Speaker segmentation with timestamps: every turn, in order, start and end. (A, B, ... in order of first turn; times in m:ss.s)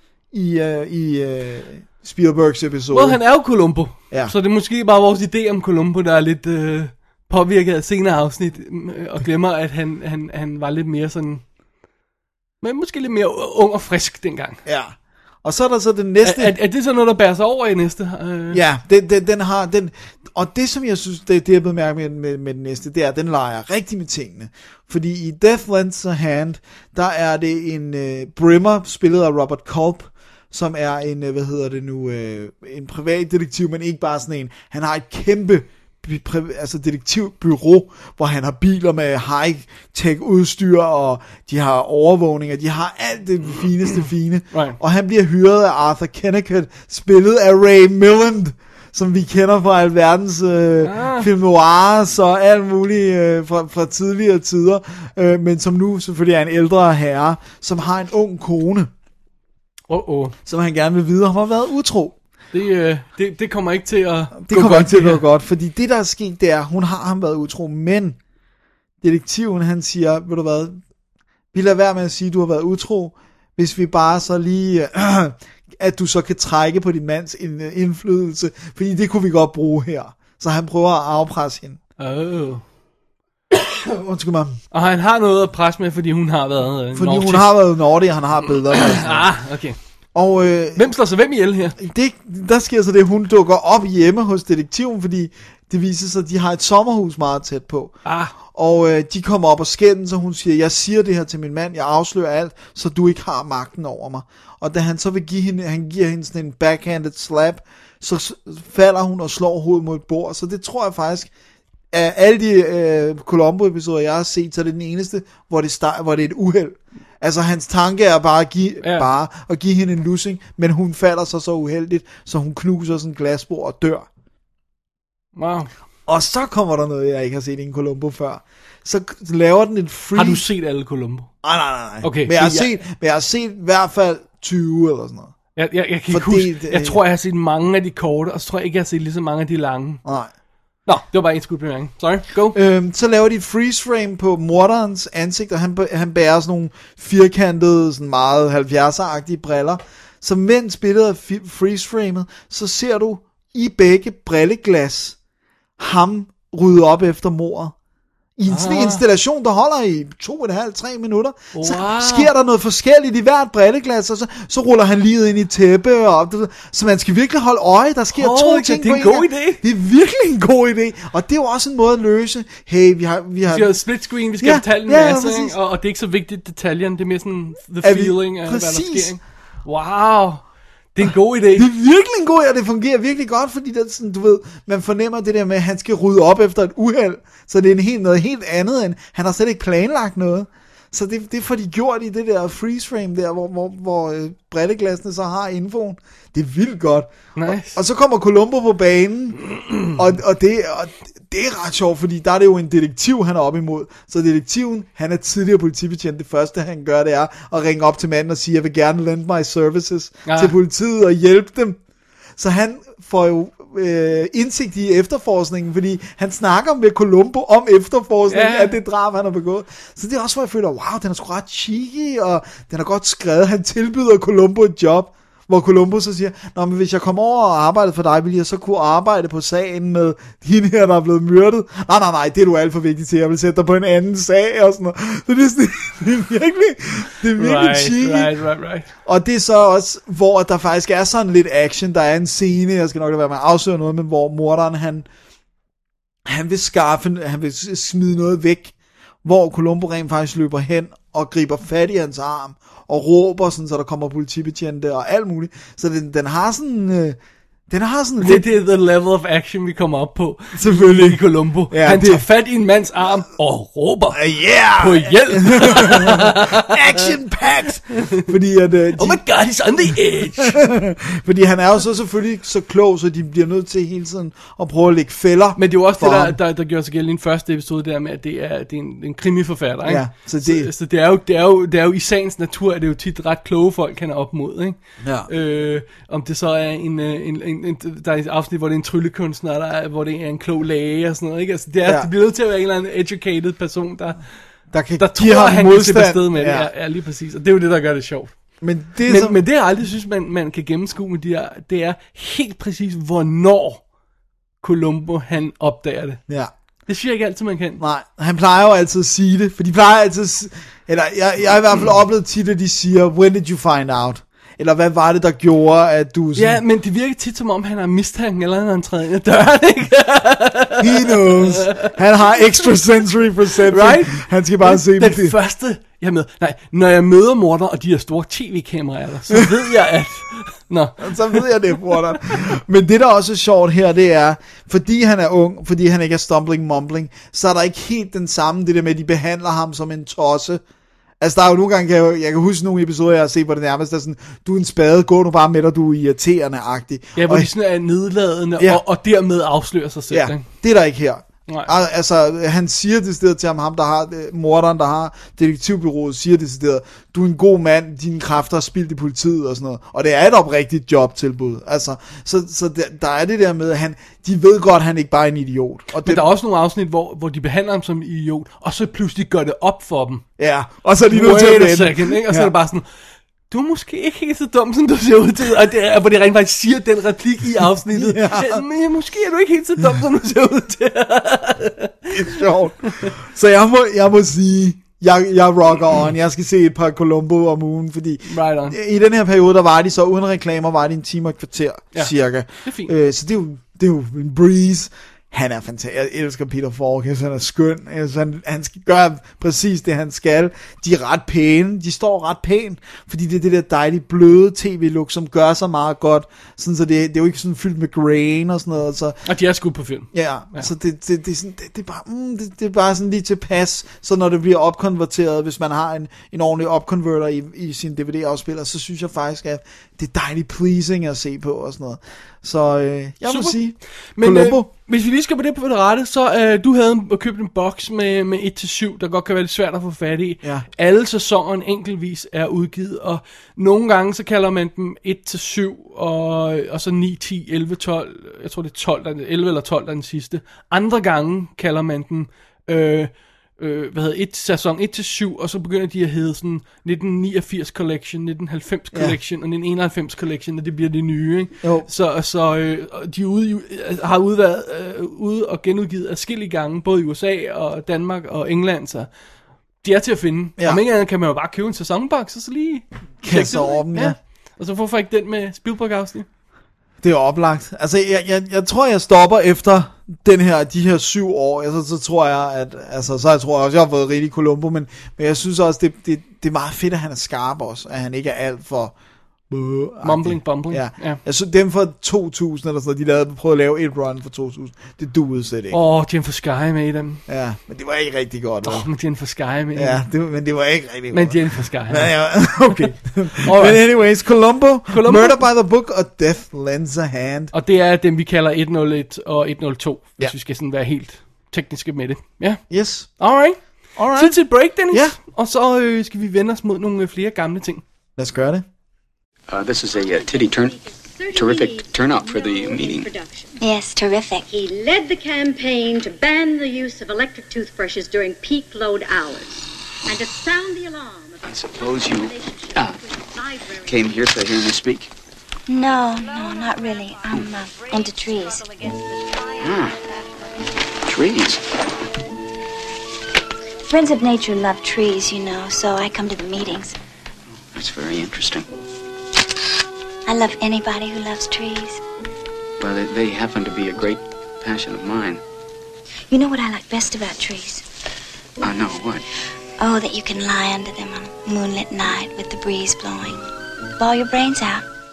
0:00.3-0:03.2 A
0:02.9-0:11.4 B
0:12.6-0:14.6 B
0:14.6-0:16.5 A
0:16.2-0:18.6 B
0:18.5-0:58.9 A
0:44.5-0:44.8 B
0:50.8-0:51.3 B
0:59.9-1:00.3 B
1:00.4-1:02.2 A
1:02.5-1:05.2 B
1:04.4-1:08.2 A
1:09.0-1:10.8 A
1:11.5-1:21.8 A
1:22.0-1:22.6 B
1:23.5-1:24.6 A
1:24.7-1:27.5 B
1:26.9-1:29.3 A
1:28.8-1:29.8 B
1:30.1-1:30.9 A
1:30.8-1:31.8 B
1:31.8-1:51.3 A
1:38.0-1:38.3 B
1:51.9-2:04.1 A
2:05.4-2:05.7 B
2:06.1-2:10.4 A
2:10.1-2:11.3 B
2:11.4-2:15.3 A
2:12.0-2:12.7 B
2:15.6-2:20.0 B
2:16.1-2:17.0 A
2:20.0-2:20.3 A
2:20.9-2:22.6 B
2:22.5-2:35.2 A
2:35.8-2:37.7 A
2:38.4-2:53.7 A
2:38.5-2:39.0 B
2:41.5-2:42.3 B
2:48.1-2:49.6 B
2:53.5-3:00.4 B
2:54.4-2:55.6 A
2:57.8-2:59.2 A
3:00.9-3:01.6 B
3:01.6-3:19.4 A
3:17.4-3:17.8 B
3:19.6-3:19.9 B
3:19.9-3:31.8 A
3:30.3-3:30.5 B
3:32.4-3:58.3 A
3:38.3-3:38.7 B
3:57.4-3:58.9 B
3:59.0-4:05.1 A
4:06.2-4:08.7 A
4:09.2-4:17.2 A
4:17.7-4:18.4 A
4:18.2-4:24.2 B
4:20.6-4:22.2 A
4:24.1-4:29.2 A
4:24.8-4:27.1 B
4:29.0-4:30.6 B
4:29.9-4:36.4 A
4:35.6-4:54.2 B
4:39.8-4:40.7 A
4:45.0-4:45.3 A
4:51.8-4:52.1 A
4:54.7-4:56.7 A
4:55.0-4:58.3 B
4:58.6-4:59.4 A
4:59.1-5:03.8 B
5:04.6-5:06.2 B
5:06.9-5:07.8 B
5:07.8-5:16.6 A
5:16.4-5:21.9 B
5:20.8-5:25.3 A
5:23.7-5:31.4 B
5:31.0-5:40.6 A
5:41.2-5:47.5 A
5:47.2-5:50.4 B
5:50.1-6:06.2 A
6:06.0-6:10.2 B
6:10.4-6:12.5 A
6:11.1-6:12.9 B
6:13.5-6:22.1 B
6:17.9-6:18.6 A
6:22.1-6:49.2 A
6:28.2-6:28.8 B
6:32.6-6:32.9 B
6:49.2-6:50.7 B
6:50.1-7:04.7 A
7:03.3-7:03.6 B
7:04.1-7:39.1 B
7:31.6-7:31.9 A
7:39.8-7:46.3 B
7:43.2-7:44.2 A
7:47.0-7:58.9 A
7:59.5-8:05.8 A
8:00.0-8:01.2 B
8:05.7-8:07.2 B
8:07.3-8:08.9 A
8:08.6-8:10.0 B
8:09.7-8:17.5 A
8:11.1-8:12.1 B
8:13.4-8:13.8 B
8:14.9-8:15.4 B
8:17.5-8:22.6 B
8:22.7-8:23.1 A
8:23.2-8:23.6 B
8:24.0-8:25.2 A
8:24.1-8:27.8 B
8:28.2-8:28.6 A
8:29.5-8:30.8 C
8:30.0-8:33.6 D
8:31.3-8:33.1 C
8:33.6-8:34.5 E
8:34.5-8:44.2 D
8:41.4-8:43.0 C
8:43.9-8:45.1 C
8:45.7-8:48.7 E
8:48.8-8:49.2 D
8:49.6-8:50.0 C
8:51.0-8:51.7 C
8:53.9-8:57.0 E
8:57.7-8:58.7 C
9:00.3-9:02.0 E
9:02.8-9:05.4 C
9:06.3-9:07.8 E
9:08.6-9:09.3 C
9:09.8-9:13.4 E
9:14.0-9:14.8 E